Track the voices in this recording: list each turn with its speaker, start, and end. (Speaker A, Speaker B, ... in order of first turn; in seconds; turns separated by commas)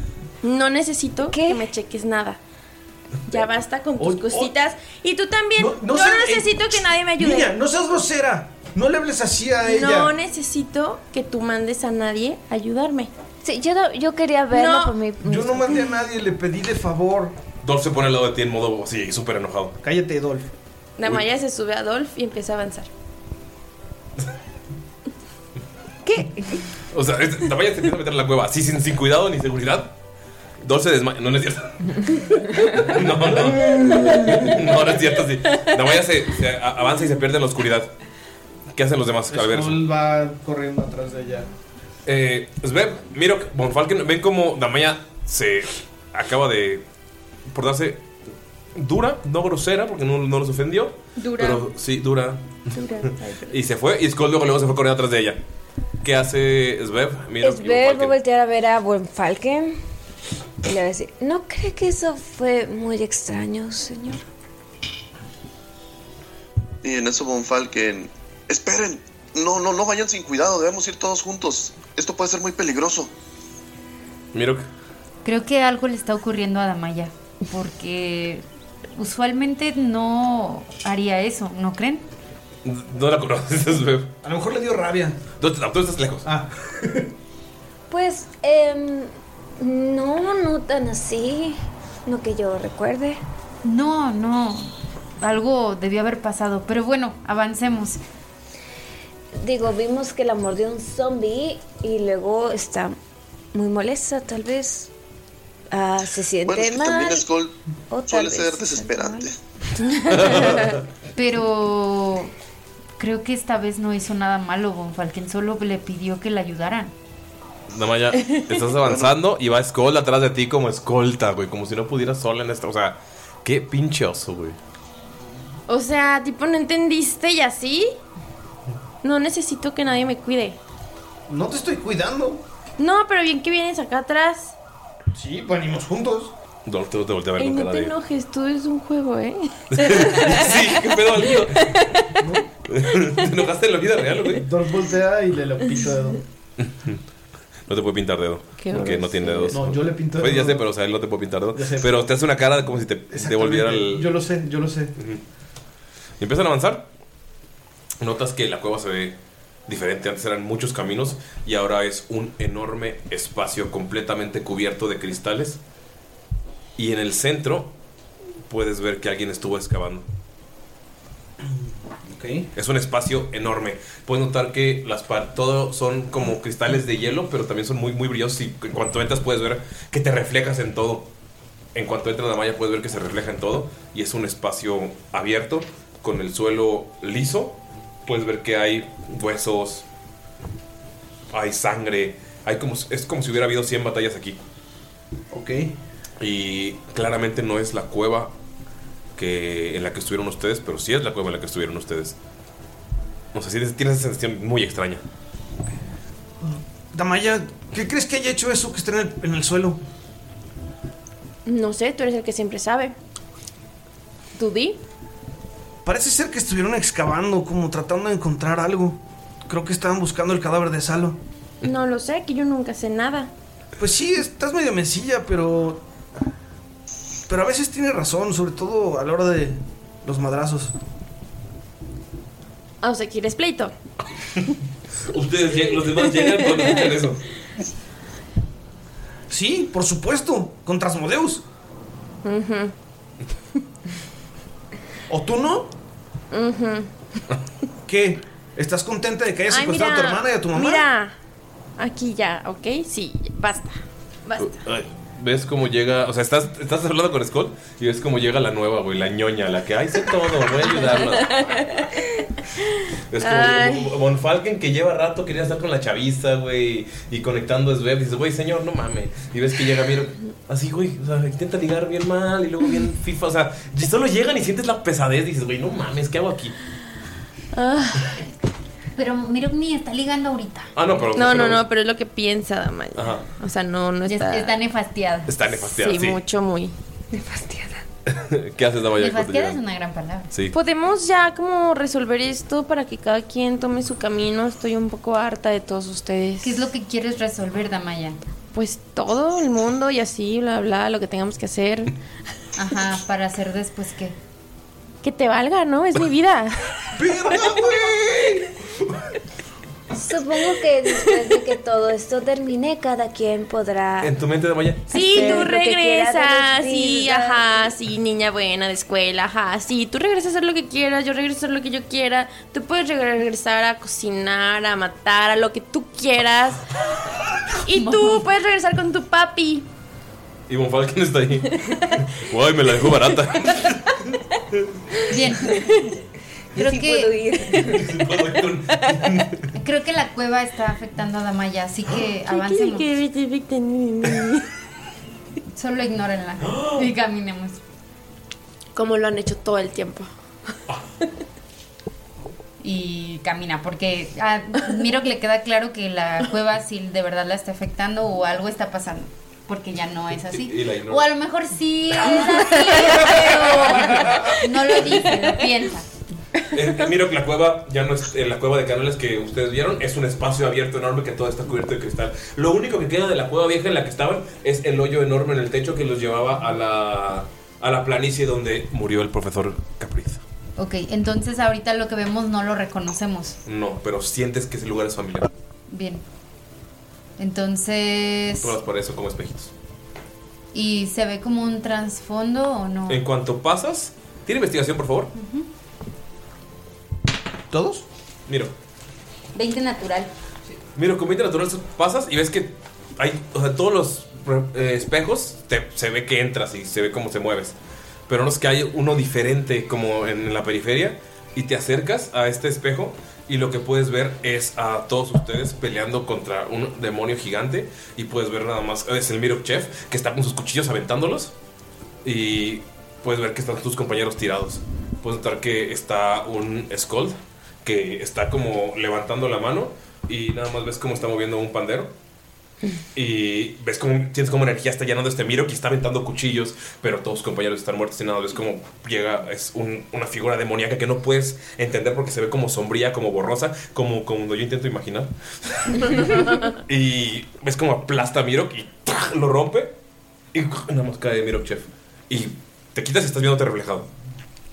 Speaker A: 0.4-2.4, Speaker B: 1.3-1.7, Speaker A: 3.3-7.5, Speaker C: 4.0-4.5, Speaker C: 5.6-10.1, Speaker A: 9.6-13.1, Speaker B: 13.4-15.8, Speaker A: 14.5-15.0, Speaker C: 15.2-17.3, Speaker D: 17.6-19.8, Speaker C: 19.8-20.5, Speaker A: 21.0-22.9, Speaker B: 26.1-26.6, Speaker D: 26.9-29.9, Speaker D: 30.6-37.9, Speaker D: 38.8-39.8, Speaker C: 39.3-41.5, Speaker D: 42.1-46.8, Speaker D: 47.5-48.0, Speaker D: 48.8-52.6, Speaker B: 52.7-53.5, Speaker D: 53.5-55.4, Speaker D: 56.0-58.2, Speaker B: 57.4-59.8, Speaker B: 60.6-64.2, Speaker E: 66.8-73.1, Speaker D: 74.3-74.7, Speaker F: 75.2-78.5, Speaker F: 79.0-82.0, Speaker D: 82.7-84.1, Speaker C: 84.2-85.2, Speaker D: 85.4-86.3, Speaker C: 86.2-87.1, Speaker B: 87.9-93.2, Speaker F: 93.6-98.0, Speaker B: 99.4-103.0, Speaker B: 103.5-104.9, Speaker B: 105.7-107.3, Speaker E: 106.5-107.5, Speaker B: 107.9-109.3, Speaker E: 108.0-109.3, Speaker B: 110.1-110.4, Speaker D: 110.1-110.7, Speaker F: 111.2-112.3, Speaker F: 113.0-116.9, Speaker D: 117.7-124.6, Speaker E: 118.8-119.1, Speaker A: 125.7-127.9, Speaker A: 129.0-130.6, Speaker C: 131.3-132.4, Speaker A: 132.8-134.6, Speaker C: 135.2-136.3, Speaker D: 136.7-137.9, Speaker A: 137.4-142.2, Speaker D: 139.7-141.9, Speaker C: 142.2-142.5, Speaker D: 142.7-144.4, Speaker C: 144.4-146.2, Speaker D: 146.6-147.0, Speaker D: 147.7-154.2, Speaker A: 148.6-149.6, Speaker C: 149.5-150.6, Speaker C: 151.6-151.9, Speaker C: 153.1-154.9, Speaker D: 155.0-155.2, Speaker D: 156.2-156.9, Speaker D: 158.0-165.6, Speaker D: 166.8-167.7, Speaker D: 168.5-170.1, Speaker C: 172.1-172.5, Speaker D: 172.6-181.1, Speaker D: 181.8-189.8, Speaker D: 191.3-194.4, Speaker C: 195.3-195.8, Speaker D: 196.2-198.3, Speaker D: 199.2-202.2, Speaker D: 203.3-205.0, Speaker C: 206.4-209.8, Speaker A: 211.4-212.9, Speaker A: 214.4-214.8, Speaker C: 215.8-221.2, Speaker A: 221.6-223.3, Speaker C: 223.8-225.8, Speaker C: 227.3-230.7, Speaker A: 232.8-233.7, Speaker D: 235.1-237.2, Speaker A: 236.2-236.9, Speaker C: 239.3-241.4, Speaker A: 242.2-242.7, Speaker C: 245.1-245.7, Speaker A: 246.3-246.9, Speaker C: 247.9-250.9, Speaker A: 249.5-251.2, Speaker A: 251.8-254.5, Speaker D: 254.4-261.6, Speaker A: 260.6-262.0, Speaker D: 263.1-276.6, Speaker A: 263.2-263.9, Speaker A: 277.5-278.2, Speaker F: 279.0-280.7, Speaker D: 280.8-281.7, Speaker A: 281.1-284.6, Speaker D: 283.0-283.2, Speaker F: 284.1-285.4, Speaker D: 285.3-286.2, Speaker A: 285.6-286.7, Speaker B: 287.1-287.9, Speaker D: 288.1-289.6, Speaker F: 289.0-290.3, Speaker A: 290.5-296.7, Speaker F: 296.4-298.2, Speaker A: 298.5-301.9, Speaker F: 302.6-304.2, Speaker A: 305.0-306.9, Speaker C: 306.9-308.5, Speaker B: 309.9-314.1, Speaker D: 314.0-315.3, Speaker A: 314.9-326.6, Speaker B: 314.9-317.6, Speaker A: 327.6-329.7, Speaker F: 327.7-328.2, Speaker D: 330.5-334.6, Speaker F: 335.1-335.6, Speaker B: 336.5-338.3, Speaker F: 336.6-337.2, Speaker D: 337.5-339.5, Speaker F: 339.5-342.9, Speaker A: 342.3-344.5, Speaker F: 345.6-347.6, Speaker D: 346.4-346.9, Speaker A: 348.8-350.1, Speaker F: 352.6-365.9, Speaker D: 360.2-361.1, Speaker D: 362.0-364.4, Speaker A: 362.9-363.6, Speaker D: 366.5-380.2, Speaker F: 380.6-383.4, Speaker D: 383.5-385.3, Speaker F: 385.7-386.0, Speaker F: 387.2-388.6, Speaker D: 388.4-389.5, Speaker F: 390.5-393.0, Speaker D: 392.9-395.1, Speaker F: 395.2-395.5, Speaker C: 397.5-397.9, Speaker D: 398.3-398.5, Speaker F: 399.3-400.1, Speaker D: 400.8-407.6, Speaker D: 408.1-421.3, Speaker D: 422.1-431.9, Speaker D: 432.9-449.7, Speaker D: 450.3-453.9